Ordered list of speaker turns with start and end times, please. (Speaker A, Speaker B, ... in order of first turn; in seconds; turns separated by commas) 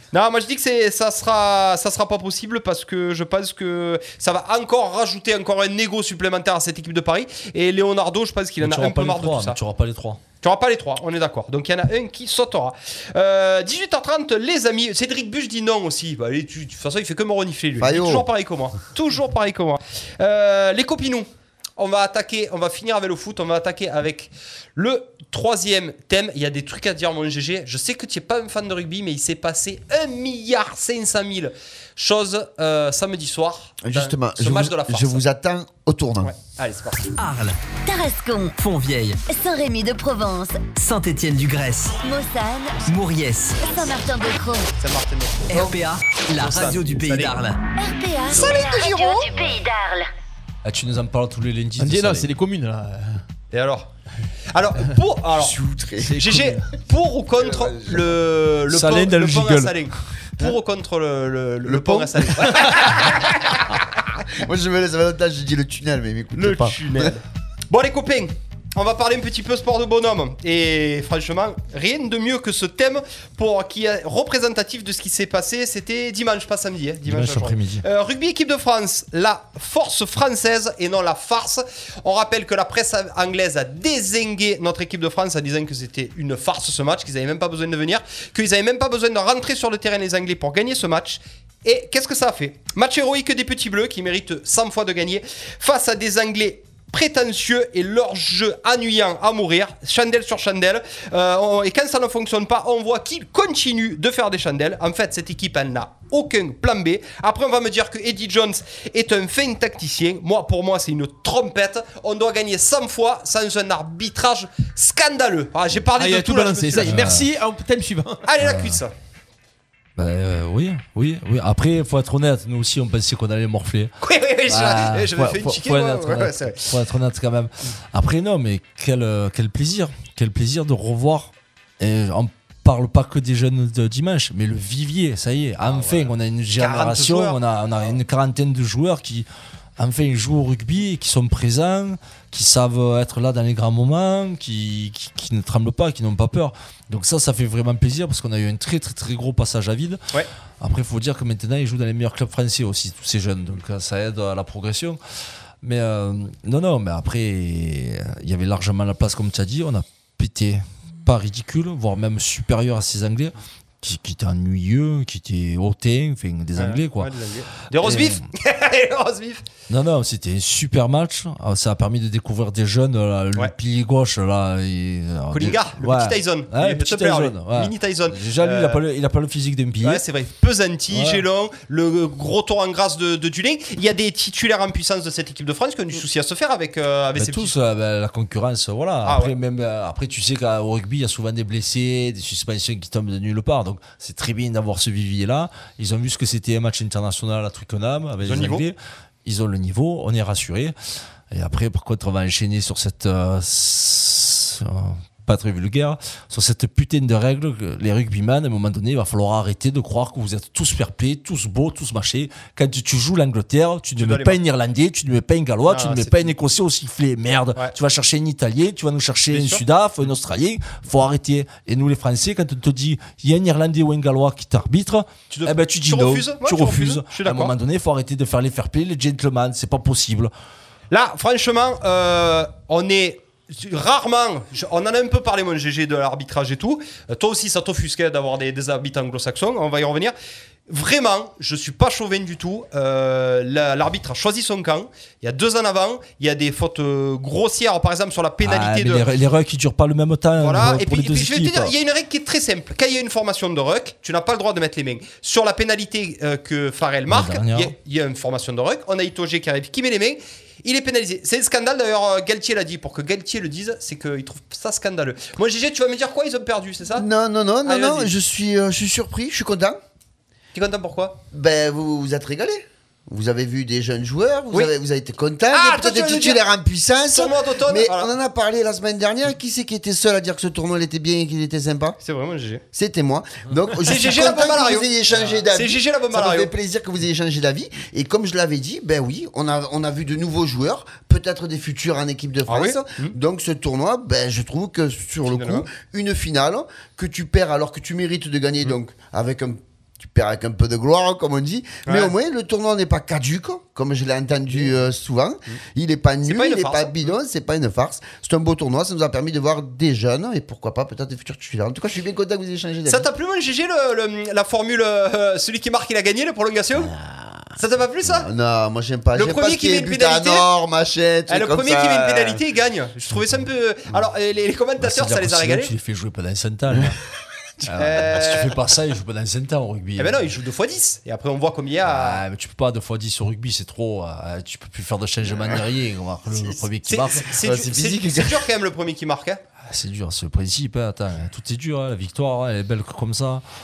Speaker A: 0.1-9.6, Speaker B: 8.6-10.2, Speaker A: 10.4-35.2, Speaker C: 17.8-18.3, Speaker C: 33.8-36.3, Speaker A: 36.2-37.1, Speaker D: 37.2-37.6, Speaker E: 37.9-38.5, Speaker D: 38.6-39.2, Speaker E: 39.3-40.7, Speaker D: 40.7-42.0, Speaker E: 42.0-42.8, Speaker D: 42.8-43.9, Speaker E: 43.6-44.7, Speaker A: 44.8-45.7, Speaker D: 45.5-47.7, Speaker A: 46.4-47.4, Speaker E: 47.8-50.1, Speaker A: 48.3-49.2, Speaker C: 48.5-49.1, Speaker B: 50.6-52.3, Speaker F: 51.8-53.2, Speaker A: 53.5-53.9, Speaker A: 54.5-55.6, Speaker C: 55.3-56.5, Speaker F: 56.0-56.6, Speaker A: 56.2-63.6, Speaker C: 57.4-58.0, Speaker B: 58.7-59.9, Speaker C: 61.6-63.3, Speaker C: 64.3-67.2, Speaker A: 66.4-117.1, Speaker B: 77.0-77.8, Speaker F: 116.0-118.2, Speaker B: 116.8-117.3, Speaker A: 118.3-118.9, Speaker B: 118.4-118.8, Speaker B: 120.0-123.9, Speaker A: 124.0-126.7, Speaker B: 124.5-139.3, Speaker A: 135.7-137.9, Speaker B: 139.8-150.0, Speaker B: 150.6-155.0, Speaker B: 155.6-167.1, Speaker A: 166.6-169.4, Speaker B: 167.8-168.2, Speaker B: 169.7-180.1, Speaker A: 175.3-178.8, Speaker A: 179.8-187.5, Speaker B: 180.9-181.2, Speaker B: 187.2-200.7, Speaker A: 189.1-189.3, Speaker A: 198.2-198.7, Speaker B: 201.3-230.3, Speaker A: 214.0-214.4, Speaker A: 215.7-216.3, Speaker A: 219.3-219.6, Speaker A: 225.3-227.5, Speaker A: 230.9-240.1, Speaker A: 240.7-249.1, Speaker B: 248.4-251.7, Speaker A: 250.4-267.1, Speaker B: 257.1-257.7, Speaker C: 266.9-269.8, Speaker A: 267.6-268.1, Speaker A: 270.5-271.2, Speaker C: 271.3-282.0, Speaker A: 275.5-276.4, Speaker A: 277.1-278.1, Speaker A: 282.0-282.6, Speaker C: 282.7-313.1, Speaker A: 283.8-284.9, Speaker A: 285.4-286.5, Speaker A: 292.5-293.1, Speaker A: 295.3-295.7, Speaker A: 301.9-302.1, Speaker A: 306.3-307.0, Speaker A: 312.9-316.9, Speaker C: 316.8-317.5, Speaker A: 317.6-318.3, Speaker C: 318.0-322.4, Speaker A: 319.1-320.5, Speaker A: 321.3-325.7, Speaker B: 324.8-327.0, Speaker B: 327.6-330.4, Speaker A: 327.8-328.6, Speaker A: 330.0-332.2, Speaker B: 331.9-337.3, Speaker A: 336.9-339.4, Speaker C: 337.3-338.5, Speaker B: 339.7-343.4